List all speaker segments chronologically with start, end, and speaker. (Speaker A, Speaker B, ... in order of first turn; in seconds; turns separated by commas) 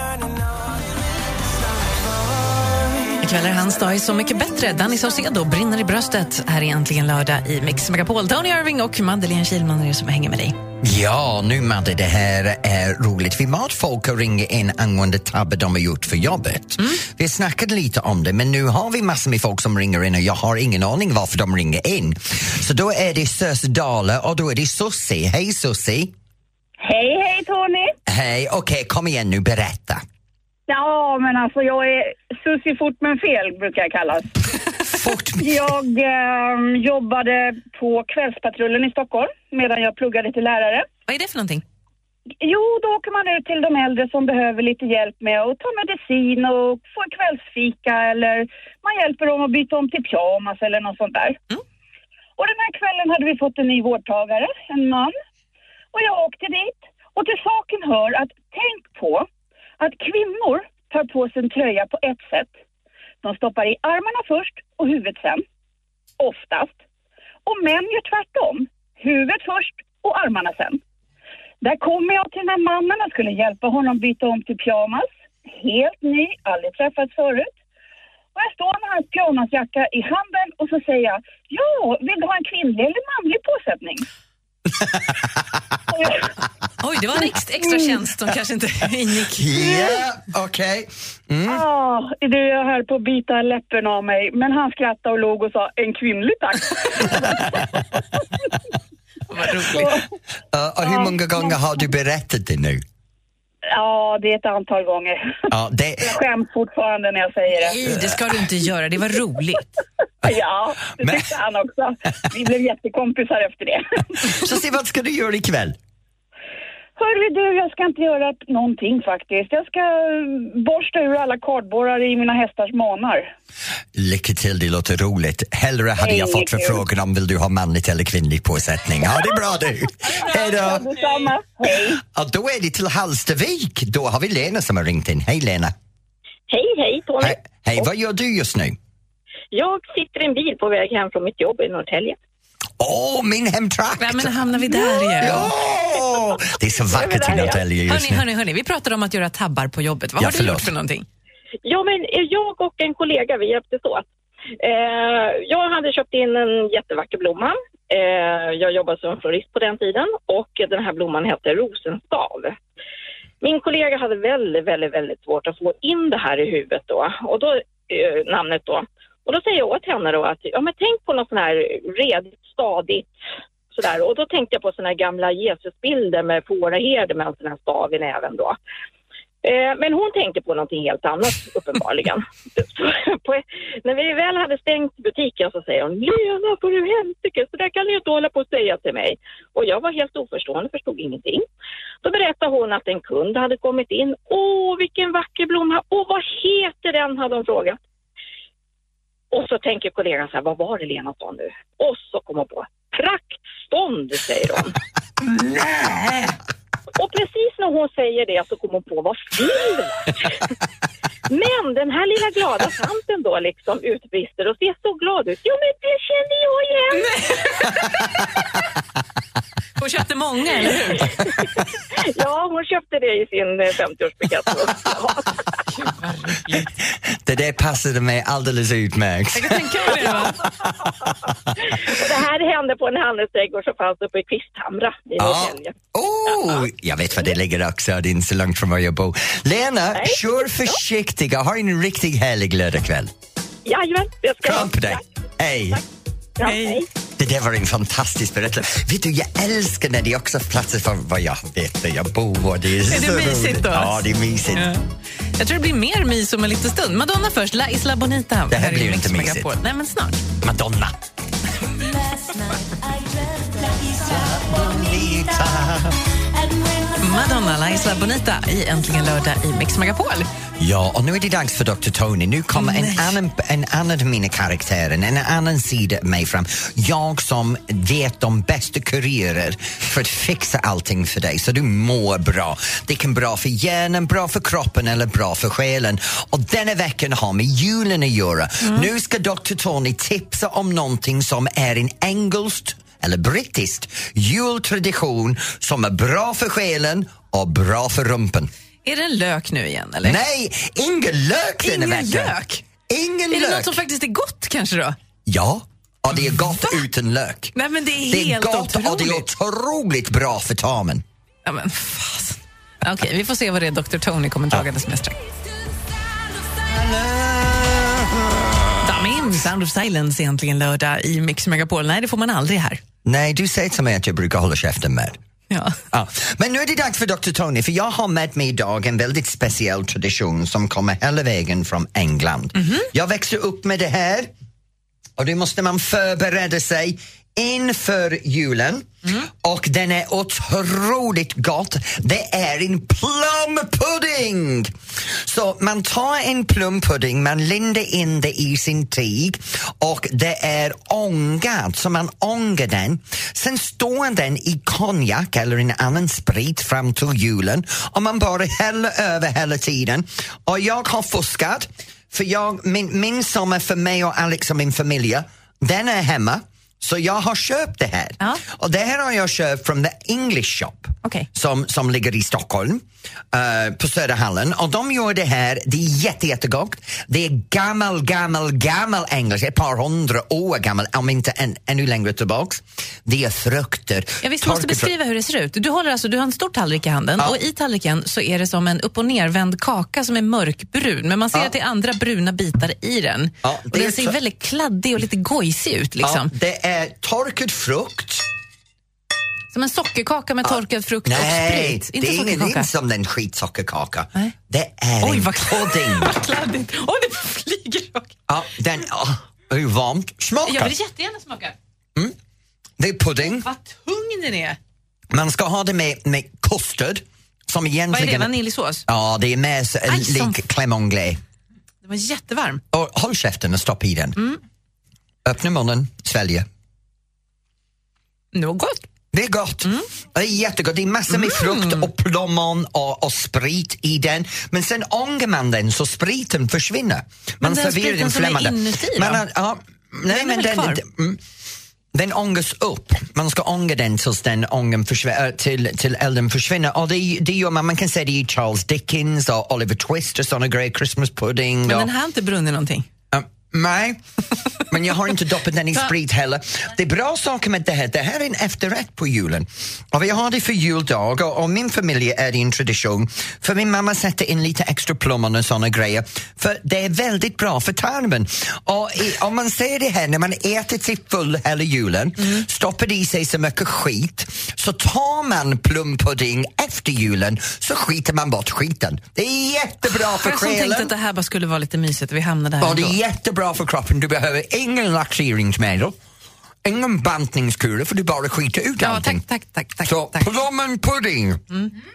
Speaker A: 3.2-10.6, Speaker B: 10.8-26.1, Speaker C: 26.8-27.9, Speaker B: 28.1-30.0, Speaker C: 30.7-34.5, Speaker B: 34.9-35.7, Speaker C: 35.4-40.9, Speaker A: 41.1-41.6, Speaker C: 42.4-51.4, Speaker C: 52.4-55.1, Speaker C: 55.9-59.3, Speaker C: 59.8-62.5, Speaker C: 63.2-65.4, Speaker C: 66.2-66.8, Speaker C: 67.5-70.8, Speaker C: 71.6-77.5, Speaker C: 78.3-84.0, Speaker B: 84.7-85.4, Speaker C: 85.9-86.3, Speaker A: 86.8-89.8, Speaker B: 89.3-91.6, Speaker C: 91.5-98.5, Speaker A: 99.3-100.0, Speaker B: 100.5-102.8, Speaker C: 100.8-101.6, Speaker C: 103.7-105.3, Speaker B: 105.5-106.2, Speaker C: 106.0-107.8, Speaker A: 107.6-109.8, Speaker B: 107.8-108.2, Speaker C: 110.2-114.5, Speaker B: 111.0-111.3, Speaker B: 114.2-115.8, Speaker C: 117.0-123.3, Speaker B: 123.9-130.9, Speaker C: 126.0-126.8, Speaker C: 130.2-132.0, Speaker B: 132.0-135.7, Speaker D: 136.5-137.8, Speaker B: 137.2-138.8, Speaker D: 139.5-142.2, Speaker B: 142.8-148.2, Speaker A: 144.0-145.5, Speaker D: 146.9-147.6, Speaker A: 147.9-151.1, Speaker B: 150.2-150.7, Speaker D: 151.6-154.1, Speaker D: 154.6-162.6, Speaker D: 163.4-173.1, Speaker D: 173.7-178.6, Speaker D: 179.4-191.5, Speaker D: 192.0-197.8, Speaker D: 199.3-204.8, Speaker B: 205.3-206.2, Speaker D: 207.0-210.4, Speaker D: 211.3-217.1, Speaker A: 216.9-217.8, Speaker A: 219.8-221.1, Speaker D: 221.9-225.6, Speaker A: 225.7-226.7, Speaker B: 226.7-231.6, Speaker A: 229.3-230.5, Speaker D: 231.6-235.7, Speaker B: 235.2-243.1, Speaker D: 239.9-240.2, Speaker D: 243.7-245.0, Speaker B: 244.4-245.8, Speaker D: 246.4-246.8, Speaker A: 246.4-246.8, Speaker B: 247.2-254.7, Speaker A: 252.9-260.2, Speaker B: 258.5-259.5, Speaker B: 260.4-261.0, Speaker B: 264.0-266.0, Speaker A: 267.0-270.3, Speaker B: 270.6-298.5, Speaker A: 272.5-273.2, Speaker A: 298.8-300.2, Speaker B: 300.0-302.3, Speaker A: 301.6-302.6, Speaker B: 302.9-303.8, Speaker A: 303.3-304.9, Speaker B: 305.2-307.5, Speaker A: 307.5-309.3, Speaker B: 308.1-311.0, Speaker A: 311.4-315.2, Speaker B: 316.6-319.1, Speaker A: 318.8-322.8, Speaker B: 323.0-325.2, Speaker A: 325.5-325.8, Speaker B: 325.9-334.3, Speaker A: 332.6-332.9, Speaker B: 335.2-384.9, Speaker A: 384.2-396.3, Speaker B: 393.4-394.1, Speaker B: 396.0-398.3, Speaker A: 399.5-402.7, Speaker B: 400.4-406.1, Speaker A: 405.0-408.1, Speaker B: 408.3-410.7, Speaker A: 410.4-411.5, Speaker B: 412.8-413.4, Speaker A: 413.2-414.6, Speaker B: 415.1-418.3, Speaker A: 417.9-418.8, Speaker B: 418.9-421.2, Speaker A: 419.9-420.4, Speaker A: 421.8-422.6, Speaker B: 422.7-424.2, Speaker B: 425.2-426.5, Speaker A: 428.3-428.9, Speaker B: 429.1-441.2, Speaker A: 431.1-431.9, Speaker A: 437.4-439.2, Speaker A: 440.1-440.8, Speaker B: 441.9-451.9, Speaker A: 451.6-452.9, Speaker B: 453.1-454.0, Speaker B: 454.7-480.9, Speaker A: 479.9-483.0, Speaker B: 482.6-485.9, Speaker B: 486.6-489.2, Speaker A: 488.8-490.3, Speaker B: 489.8-491.4